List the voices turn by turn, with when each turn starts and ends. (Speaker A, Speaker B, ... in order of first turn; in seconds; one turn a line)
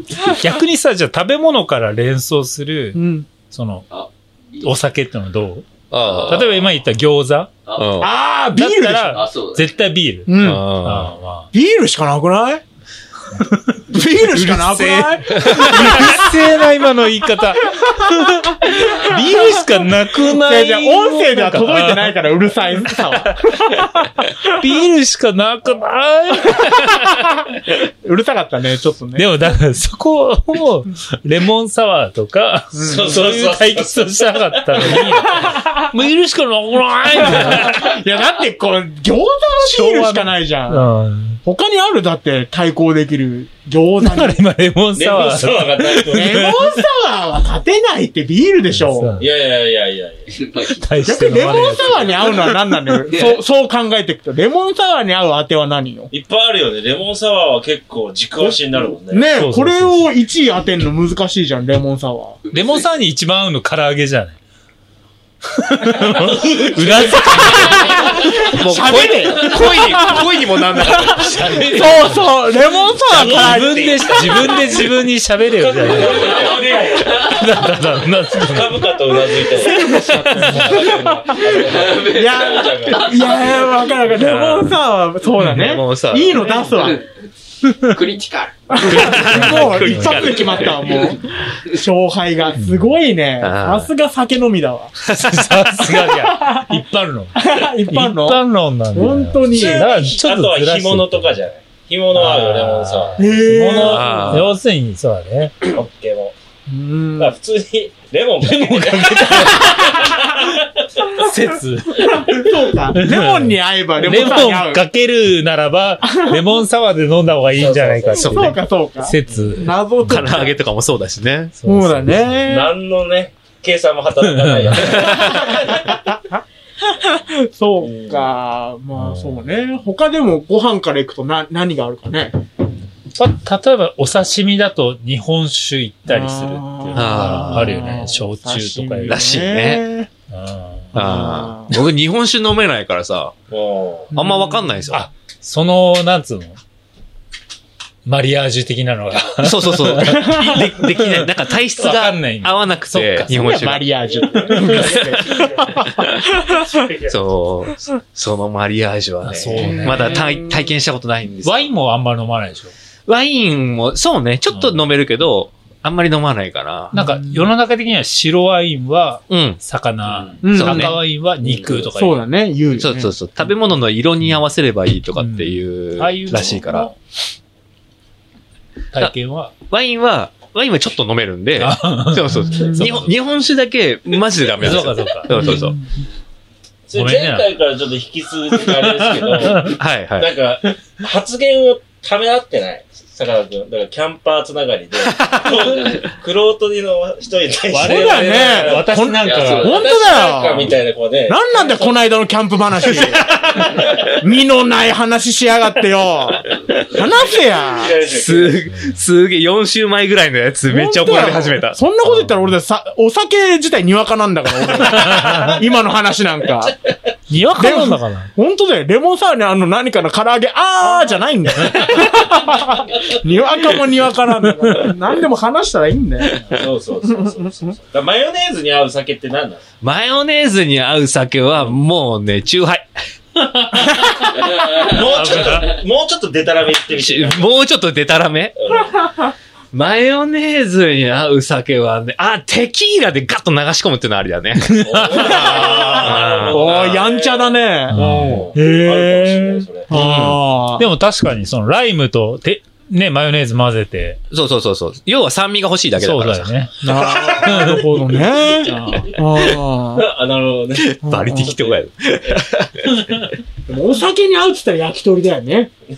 Speaker A: 0.2-3.9
Speaker B: 3.0-3.3
Speaker A: 4.6-5.7
Speaker C: 5.9-6.7
Speaker D: 6.0-6.4
Speaker A: 6.3-7.5
Speaker C: 7.7-8.1
Speaker B: 8.0-9.2
Speaker A: 8.6-11.5
Speaker D: 9.1-9.7
Speaker B: 10.3-10.7
Speaker C: 10.4-11.1
Speaker B: 11.5-12.6
Speaker A: 13.4-22.2
Speaker B: 13.9-16.7
Speaker C: 15.4-16.1
Speaker B: 18.6-24.3
Speaker A: 22.7-23.3
Speaker A: 24.5-27.3
Speaker B: 27.7-29.4
Speaker A: 29.1-38.0
Speaker B: 32.7-33.1
Speaker E: 32.8-35.0
Speaker B: 35.4-35.7
Speaker B: 37.3-40.9
Speaker A: 39.6-41.4
Speaker B: 41.4-44.5
Speaker A: 44.0-46.8
Speaker E: 44.9-46.4
Speaker B: 46.1-49.2
Speaker A: 48.7-49.3
Speaker E: 49.2-50.4
Speaker D: 50.3-50.8
Speaker A: 50.7-52.5
Speaker B: 51.0-56.1
Speaker D: 51.5-51.8
Speaker D: 53.1-53.4
Speaker E: 56.1-59.3
Speaker B: 59.1-62.4
Speaker A: 59.4-60.1
Speaker D: 62.5-62.8
Speaker A: 62.5-64.4
Speaker A: 65.6-68.6
Speaker E: 66.1-67.2
Speaker B: 67.6-74.3
Speaker C: 68.5-71.5
Speaker A: 71.1-72.5
Speaker E: 73.1-75.0
Speaker A: 73.1-79.0
Speaker E: 75.5-77.2
Speaker E: 78.4-83.6
Speaker B: 79.3-87.0
Speaker A: 80.3-80.8
Speaker D: 81.9-83.5
Speaker C: 84.1-84.8
Speaker C: 85.4-86.6
Speaker D: 86.5-87.1
Speaker D: 87.8-89.0
Speaker B: 88.7-95.0
Speaker C: 88.8-91.0
Speaker A: 88.9-90.3
Speaker A: 92.6-92.9
Speaker C: 93.4-93.9
Speaker C: 95.0-95.9
Speaker A: 95.1-101.3
Speaker B: 96.2-96.8
Speaker B: 97.4-99.9
Speaker E: 99.5-103.2
Speaker A: 102.2-105.6
Speaker B: 103.2-104.5
Speaker C: 103.8-104.5
Speaker E: 105.7-106.3
Speaker B: 106.7-107.3
Speaker E: 107.2-111.0
Speaker A: 108.4-110.5
Speaker A: 111.2-120.5
Speaker B: 112.0-114.8
Speaker B: 116.0-116.4
Speaker E: 117.5-118.3
Speaker B: 118.2-120.6
Speaker C: 118.2-118.5
Speaker C: 120.1-121.5
Speaker A: 121.5-122.4
Speaker B: 121.7-122.7
Speaker E: 122.4-126.0
Speaker A: 124.2-125.0
Speaker C: 124.9-125.6
Speaker B: 125.7-126.4
Speaker B: 126.9-132.4
Speaker E: 127.8-128.3
Speaker A: 133.1-139.3
Speaker B: 136.1-140.1
Speaker C: 136.9-137.7
Speaker C: 139.0-139.9
Speaker A: 140.3-141.1
Speaker B: 140.9-141.8
Speaker C: 140.9-143.3
Speaker E: 143.5-144.2
Speaker B: 144.1-144.7
Speaker C: 144.1-145.0
Speaker A: 144.9-146.6
Speaker A: 148.1-153.7
Speaker C: 149.4-153.9
Speaker B: 150.1-150.4
Speaker B: 153.3-156.7
Speaker A: 154.5-155.6
Speaker A: 156.6-157.2
Speaker C: 157.1-161.7
Speaker A: 159.2-160.3
Speaker B: 159.6-160.6
Speaker A: 161.4-162.7
Speaker C: 163.1-167.0
Speaker A: 164.5-164.9
Speaker A: 166.9-172.2
Speaker C: 169.3-169.6
Speaker B: 170.4-171.0
Speaker C: 170.5-171.0
Speaker B: 171.8-173.1
Speaker C: 172.8-176.9
Speaker A: 175.2-177.0
Speaker A: 178.9-179.6
Speaker C: 179.7-185.8
Speaker A: 181.6-183.1
Speaker A: 184.5-186.0
Speaker E: 186.9-201.9
Speaker A: 186.9-187.5
Speaker A: 188.5-189.7
Speaker C: 189.8-190.3
Speaker A: 197.7-199.8
Speaker B: 197.8-200.7
Speaker D: 199.3-199.7
Speaker B: 201.2-208.0
Speaker E: 203.0-203.3
Speaker E: 207.2-208.7
Speaker C: 208.1-211.8
Speaker A: 208.7-209.0
Speaker B: 210.7-216.8
Speaker A: 212.1-212.3
Speaker A: 214.8-215.5
Speaker A: 217.3-218.3
Speaker B: 217.6-226.6
Speaker E: 226.5-229.6
Speaker C: 229.8-232.9
Speaker A: 233.4-235.8
Speaker E: 234.5-237.6
Speaker C: 236.9-238.6
Speaker E: 238.6-239.1
Speaker C: 239.7-246.7
Speaker A: 244.6-245.4
Speaker E: 244.8-250.3
Speaker B: 245.1-250.9
Speaker A: 247.9-248.5
Speaker C: 249.9-250.4
Speaker A: 250.8-254.2
Speaker C: 254.3-256.5
Speaker A: 256.0-256.8
Speaker B: 256.8-260.1
Speaker E: 257.1-257.8
Speaker A: 257.4-259.1
Speaker E: 259.9-262.4
Speaker C: 260.8-263.0
Speaker B: 261.0-261.5
Speaker B: 263.7-265.7